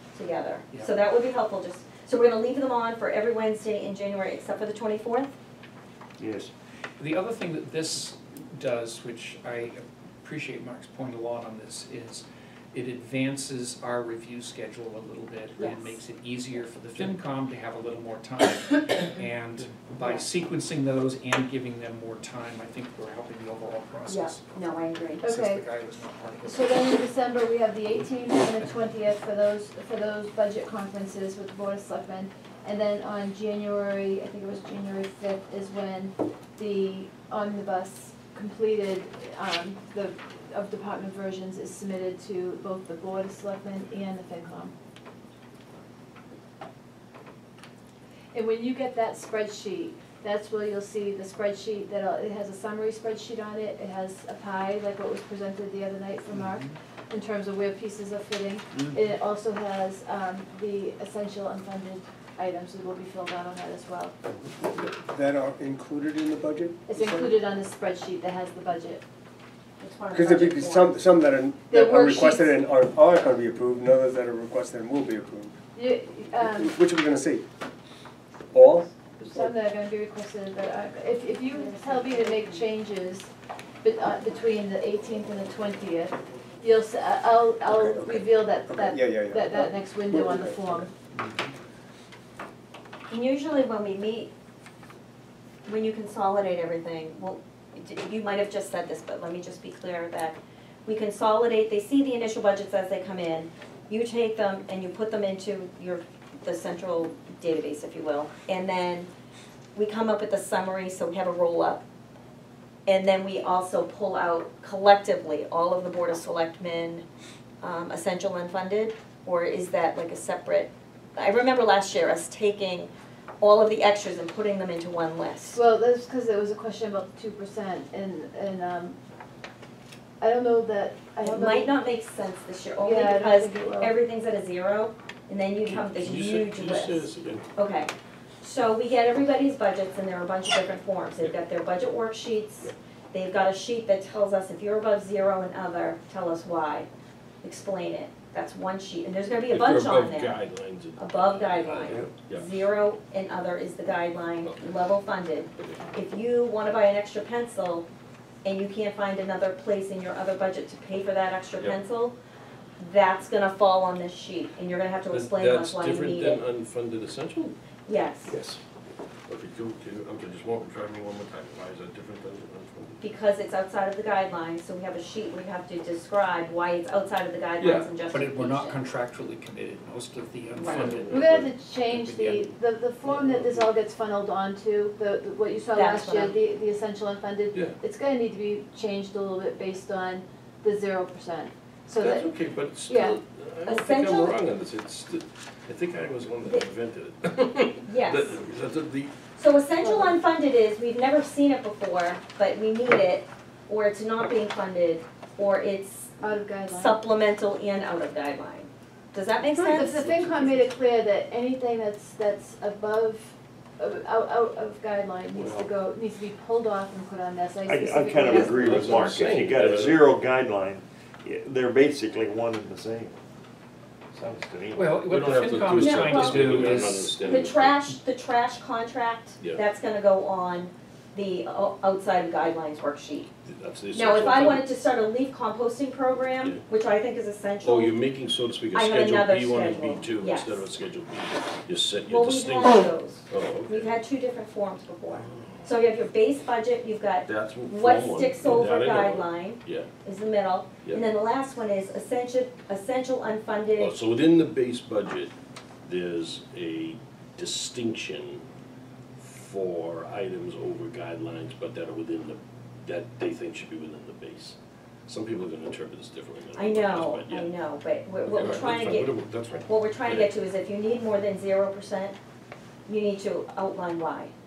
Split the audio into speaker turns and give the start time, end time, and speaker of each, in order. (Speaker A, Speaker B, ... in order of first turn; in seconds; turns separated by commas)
Speaker A: 0.1-5.3, Speaker B: 6.2-6.5, Speaker C: 7.0-24.5, Speaker A: 15.6-15.9, Speaker A: 24.1-25.2, Speaker C: 25.1-26.8, Speaker D: 25.2-25.6, Speaker D: 26.4-44.7, Speaker D: 48.3-64.1, Speaker C: 56.3-56.7, Speaker E: 64.6-67.3, Speaker D: 66.9-69.0, Speaker A: 69.8-71.0, Speaker E: 70.1-75.5, Speaker D: 71.7-72.6, Speaker D: 75.7-76.7, Speaker E: 76.4-77.5, Speaker E: 78.5-79.4, Speaker D: 79.2-83.3, Speaker A: 81.5-82.5, Speaker D: 83.8-90.9, Speaker E: 87.7-90.9, Speaker A: 93.1-94.3, Speaker A: 95.7-109.1, Speaker A: 109.8-111.8, Speaker A: 112.9-117.0, Speaker A: 117.6-122.9, Speaker A: 123.4-125.6, Speaker D: 125.5-129.0, Speaker D: 130.2-131.7, Speaker A: 131.2-146.9, Speaker D: 132.8-133.9, Speaker F: 135.6-137.5, Speaker A: 147.4-150.4, Speaker F: 149.5-152.6, Speaker A: 151.0-157.9, Speaker F: 154.4-154.8, Speaker F: 155.6-155.9, Speaker A: 158.4-162.2, Speaker A: 162.8-166.4, Speaker F: 165.1-167.6, Speaker A: 167.9-168.3, Speaker F: 168.3-168.6, Speaker F: 169.3-173.0, Speaker A: 173.0-178.8, Speaker F: 177.6-177.9, Speaker C: 178.1-182.4, Speaker A: 180.6-180.9, Speaker F: 180.6-181.5, Speaker D: 181.1-192.3, Speaker F: 183.1-183.7, Speaker A: 185.7-186.4, Speaker F: 187.5-187.8, Speaker F: 192.0-199.2, Speaker D: 192.9-193.2, Speaker A: 193.7-194.4, Speaker A: 197.9-198.3, Speaker A: 199.4-206.1, Speaker D: 199.8-200.2, Speaker D: 206.2-207.0, Speaker A: 206.7-210.0, Speaker F: 209.6-210.6, Speaker D: 209.6-219.2, Speaker F: 215.3-215.7, Speaker B: 217.7-223.2, Speaker F: 218.2-220.1, Speaker B: 224.1-225.0, Speaker C: 224.7-227.4, Speaker F: 225.0-227.8, Speaker A: 225.8-233.3, Speaker F: 233.5-234.7, Speaker A: 233.9-238.0, Speaker F: 237.6-244.0, Speaker A: 238.7-240.6, Speaker A: 242.1-254.0, Speaker F: 245.2-245.6, Speaker F: 247.3-249.9, Speaker F: 253.8-255.3, Speaker F: 255.9-258.4, Speaker F: 259.2-267.5, Speaker A: 266.6-269.1, Speaker F: 268.3-270.3, Speaker A: 269.7-272.2, Speaker A: 272.9-274.3